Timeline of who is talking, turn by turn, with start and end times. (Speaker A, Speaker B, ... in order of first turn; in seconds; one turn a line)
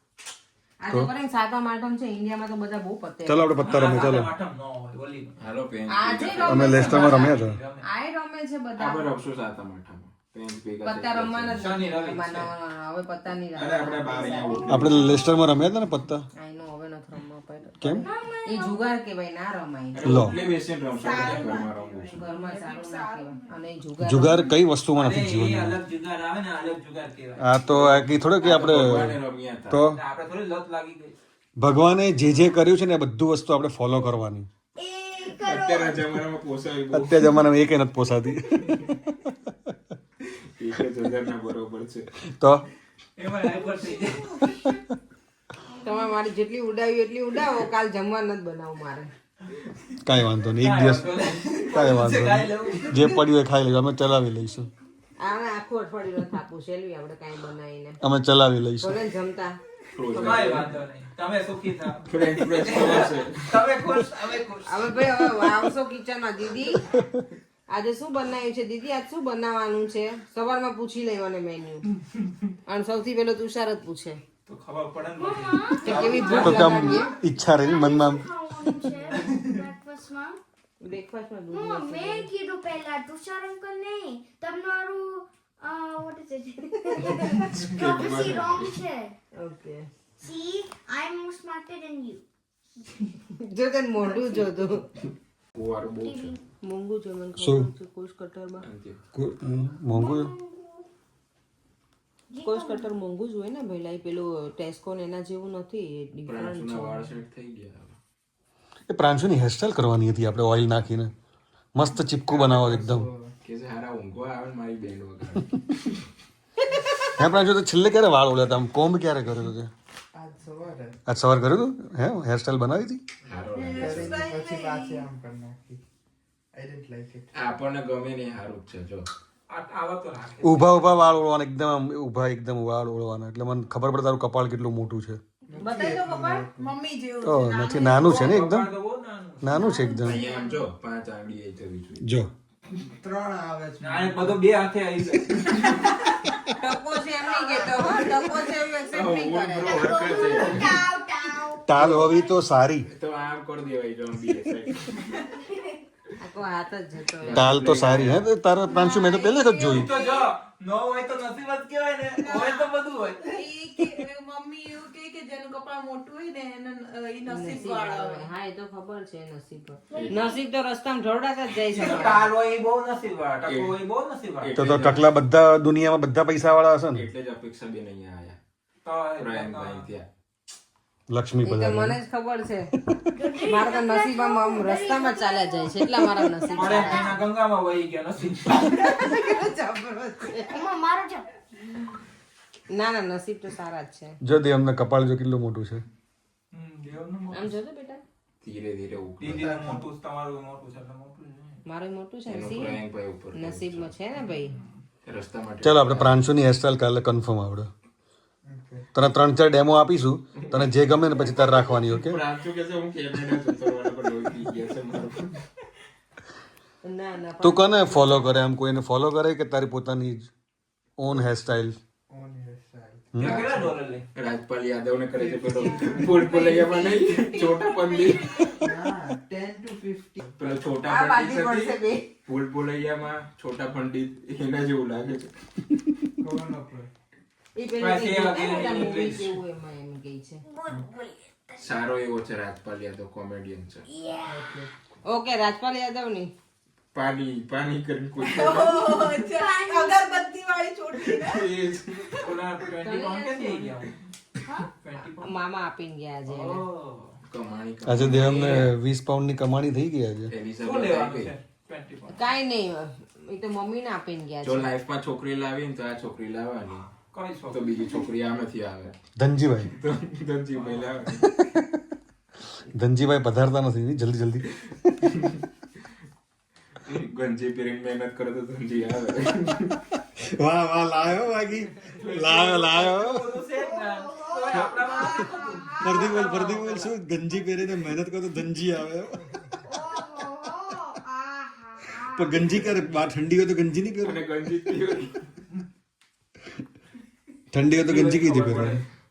Speaker A: 0.8-3.5
Speaker B: 3.2-4.3
Speaker C: 3.6-5.3
Speaker D: 5.4-6.7
Speaker A: 5.9-7.3
Speaker C: 6.3-7.8
Speaker B: 6.4-7.6
Speaker A: 7.8-9.1
Speaker D: 8.8-11.7
Speaker A: 10.8-14.8
Speaker C: 11.5-12.5
Speaker D: 13.5-15.1
Speaker E: 14.3-15.2
Speaker B: 14.7-16.2
Speaker A: 16.4-20.0
Speaker E: 18.0-18.9
Speaker D: 19.9-22.2
Speaker B: 20.0-20.3
Speaker F: 20.3-23.4
Speaker A: 22.1-24.5
Speaker B: 24.0-25.8
Speaker C: 24.9-27.4
Speaker B: 27.4-29.2
Speaker D: 27.7-29.8
Speaker B: 29.7-30.0
Speaker C: 29.9-31.1
Speaker B: 31.6-34.5
Speaker E: 34.8-36.1
Speaker D: 35.2-37.4
Speaker B: 36.9-40.0
Speaker D: 38.6-38.9
Speaker D: 40.2-42.1
Speaker B: 42.2-42.6
Speaker C: 43.2-44.4
Speaker B: 44.5-44.8
Speaker A: 45.8-49.1
Speaker B: 50.0-54.7
Speaker C: 50.6-53.2
Speaker A: 55.2-58.0
Speaker B: 58.0-59.0
Speaker A: 58.8-59.6
Speaker D: 59.9-60.8
Speaker C: 60.1-65.3
Speaker D: 62.1-63.6
Speaker A: 64.7-66.9
Speaker A: 67.7-71.8
Speaker A: 72.7-74.2
Speaker C: 74.5-76.8
Speaker E: 75.2-80.4
Speaker A: 75.8-77.1
Speaker B: 76.3-78.3
Speaker C: 79.1-79.5
Speaker A: 80.8-82.3
Speaker E: 81.5-89.2
Speaker D: 87.2-88.8
Speaker A: 89.3-89.8
Speaker E: 90.2-92.2
Speaker A: 93.4-94.9
Speaker E: 94.1-94.4
Speaker D: 95.5-96.3
Speaker E: 96.0-96.4
Speaker A: 96.6-98.7
Speaker B: 97.4-97.7
Speaker D: 98.6-99.0
Speaker B: 99.1-100.3
Speaker E: 99.9-100.8
Speaker E: 102.3-102.9
Speaker A: 102.4-107.1
Speaker D: 106.3-108.0
Speaker B: 108.9-111.1
Speaker B: 111.7-113.1
Speaker G: 112.3-113.3
Speaker D: 113.4-116.0
Speaker B: 117.1-119.7
Speaker G: 120.1-121.0
Speaker B: 121.1-123.0
Speaker D: 123.2-124.4
Speaker F: 123.5-125.1
Speaker G: 123.8-125.8
Speaker G: 126.5-127.3
Speaker D: 127.3-129.1
Speaker C: 129.5-130.7
Speaker B: 130.4-135.2
Speaker G: 135.5-136.7
Speaker F: 135.5-138.2
Speaker B: 137.2-138.7
Speaker C: 137.9-139.7
Speaker B: 139.4-140.2
Speaker E: 139.5-140.6
Speaker D: 140.0-142.0
Speaker B: 142.0-142.3
Speaker G: 142.8-144.4
Speaker C: 143.8-146.1
Speaker A: 146.5-150.0
Speaker E: 147.2-148.3
Speaker D: 148.9-150.8
Speaker E: 149.7-152.4
Speaker B: 151.6-152.9
Speaker D: 151.8-152.1
Speaker D: 152.9-155.0
Speaker A: 156.2-157.5
Speaker D: 157.2-158.3
Speaker B: 157.2-159.9
Speaker E: 158.7-160.3
Speaker C: 159.6-163.4
Speaker F: 162.2-162.7
Speaker F: 163.2-168.3
Speaker A: 167.3-172.3
Speaker E: 169.9-170.4
Speaker D: 169.9-170.2
Speaker C: 171.7-174.7
Speaker D: 173.4-173.8
Speaker D: 174.4-175.0
Speaker B: 174.6-177.1
Speaker D: 176.9-178.4
Speaker C: 178.8-179.9
Speaker D: 179.2-180.1
Speaker B: 181.1-182.0
Speaker A: 181.4-182.7
Speaker E: 183.1-187.2
Speaker A: 183.5-187.2
Speaker C: 186.5-189.2
Speaker A: 188.8-190.6
Speaker E: 190.5-191.3
Speaker A: 192.7-194.2
Speaker B: 194.2-195.8
Speaker C: 196.5-197.5
Speaker A: 197.3-198.0
Speaker D: 198.4-199.7
Speaker C: 199.2-201.6
Speaker G: 199.2-199.9
Speaker A: 201.7-202.8
Speaker D: 202.3-203.9
Speaker A: 203.3-204.6
Speaker C: 204.2-204.8
Speaker D: 205.0-206.2
Speaker B: 205.6-207.7
Speaker G: 208.5-208.9
Speaker B: 208.9-212.2
Speaker D: 210.4-210.7
Speaker D: 211.9-215.4
Speaker A: 216.8-218.3
Speaker B: 217.4-220.3
Speaker B: 221.0-221.8
Speaker G: 222.1-223.8
Speaker B: 223.1-223.4
Speaker C: 223.2-224.0
Speaker D: 224.1-228.6
Speaker G: 225.1-226.4
Speaker F: 225.5-228.9
Speaker G: 228.6-230.5
Speaker D: 230.4-235.3
Speaker A: 230.8-232.1
Speaker G: 236.2-236.9
Speaker A: 237.6-240.4
Speaker C: 237.8-239.4
Speaker E: 240.5-241.8
Speaker D: 241.6-243.8
Speaker E: 243.9-244.4
Speaker G: 244.2-244.7
Speaker A: 245.1-246.3
Speaker D: 246.9-249.1
Speaker F: 248.2-251.6
Speaker E: 249.2-250.3
Speaker D: 251.0-252.3
Speaker C: 252.2-254.0
Speaker A: 252.8-253.8
Speaker E: 254.4-254.7
Speaker C: 254.8-255.3
Speaker A: 255.2-256.6
Speaker C: 256.3-257.2
Speaker D: 257.3-258.7
Speaker B: 257.8-260.3
Speaker D: 260.3-261.3
Speaker C: 260.6-262.2
Speaker A: 262.1-264.7
Speaker D: 264.4-266.9
Speaker C: 267.0-267.7
Speaker D: 267.5-268.9
Speaker B: 269.2-269.7
Speaker D: 269.7-271.3
Speaker C: 270.6-270.9
Speaker B: 271.2-271.8
Speaker B: 272.5-275.2
Speaker D: 275.0-275.4
Speaker D: 276.8-279.8
Speaker B: 280.2-283.4
Speaker C: 281.9-286.7
Speaker E: 283.6-286.7
Speaker B: 285.8-289.6
Speaker E: 289.6-292.8
Speaker B: 292.0-294.5
Speaker D: 294.0-295.3
Speaker B: 297.5-298.8
Speaker C: 297.7-298.9